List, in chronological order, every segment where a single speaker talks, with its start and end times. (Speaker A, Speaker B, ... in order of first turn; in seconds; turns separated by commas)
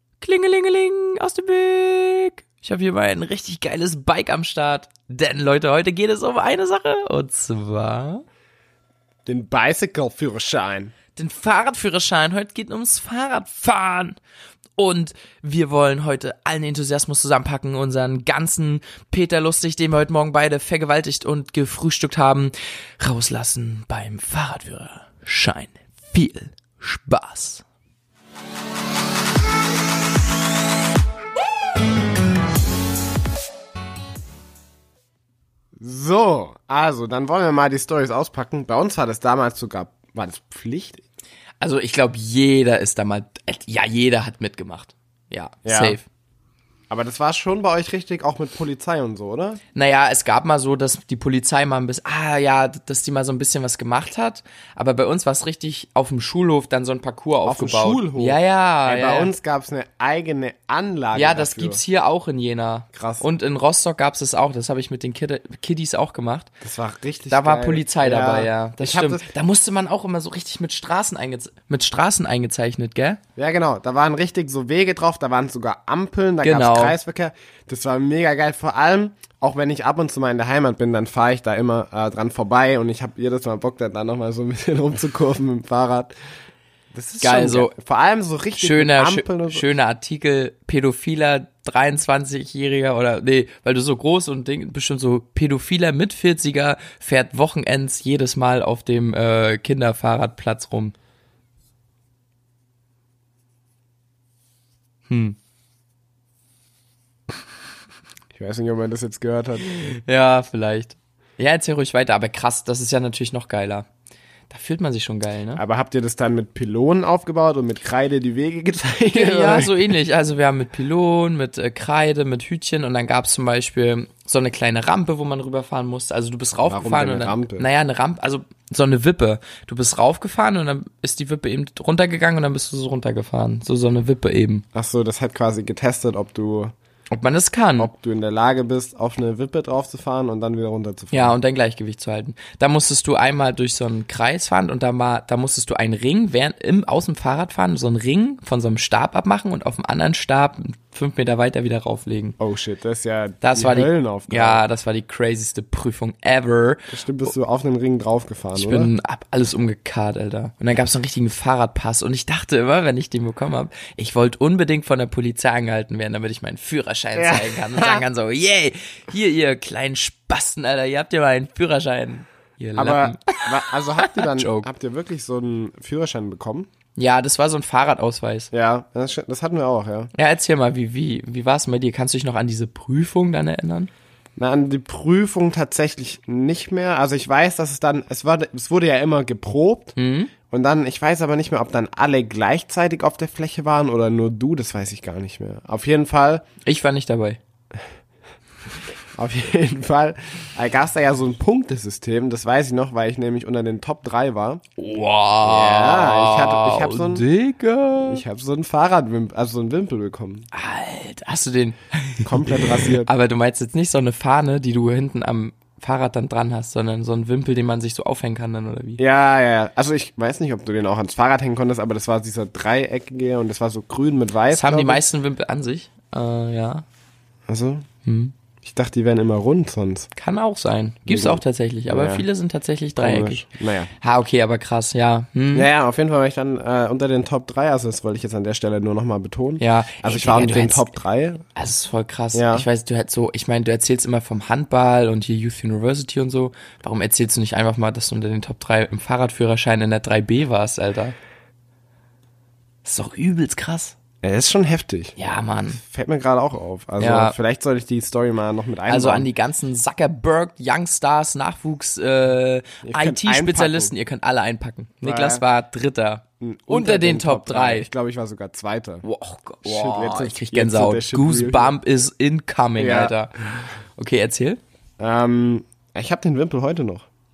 Speaker A: 0.2-8.2, Speaker B: 9.2-10.9, Speaker A: 11.2-14.2, Speaker A: 14.8-27.6, Speaker B: 35.8-41.0, Speaker A: 41.6-46.0, Speaker B: 45.6-46.0, Speaker B: 46.9-49.6, Speaker A: 49.7-59.3, Speaker B: 57.4-61.8, Speaker A: 61.1-66.5, Speaker B: 62.9-63.2, Speaker B: 66.6-69.3, Speaker A: 67.3-73.2, Speaker B: 73.3-86.1, Speaker A: 76.4-77.0, Speaker B: 86.9-89.7, Speaker A: 87.2-87.7, Speaker A: 88.6-100.9, Speaker A: 105.1-105.4, Speaker B: 108.3-109.7, Speaker A: 109.6-113.8, Speaker A: 114.5-115.6, Speaker B: 115.5-119.9, Speaker A: 119.1-134.6, Speaker B: 126.6-127.7, Speaker B: 134.7-136.7, Speaker A: 137.1-137.9, Speaker B: 137.8-141.4, Speaker A: 141.1-152.4, Speaker B: 152.4-154.6, Speaker A: 153.4-157.3, Speaker B: 156.9-158.9, Speaker A: 158.5-174.7, Speaker B: 167.1-168.0, Speaker B: 172.8-176.7, Speaker A: 176.9-178.5, Speaker B: 178.5-180.1, Speaker A: 180.1-183.9, Speaker B: 184.4-189.9, Speaker A: 189.9-190.3, Speaker B: 190.5-196.4, Speaker A: 196.7-197.4, Speaker B: 199.2-204.6, Speaker A: 204.8-208.2, Speaker B: 205.4-207.2, Speaker B: 208.0-210.5, Speaker A: 210.5-219.0, Speaker B: 212.2-213.1, Speaker B: 219.0-225.0, Speaker A: 224.5-226.8, Speaker B: 227.5-227.8, Speaker A: 228.0-228.3, Speaker B: 228.6-230.1, Speaker A: 230.2-233.4, Speaker B: 231.1-232.2, Speaker B: 233.0-233.9, Speaker A: 234.0-235.7, Speaker B: 235.5-241.4, Speaker A: 239.6-240.9, Speaker A: 241.6-251.2, Speaker B: 242.3-242.7, Speaker A: 252.8-253.9, Speaker B: 254.2-255.2, Speaker A: 255.2-255.8, Speaker B: 255.7-259.3, Speaker A: 257.0-257.4, Speaker A: 258.9-267.9, Speaker B: 262.8-263.9, Speaker B: 265.0-265.4, Speaker B: 266.4-269.0, Speaker A: 269.0-274.6, Speaker B: 269.6-271.8, Speaker B: 272.8-273.1, Speaker B: 275.0-277.1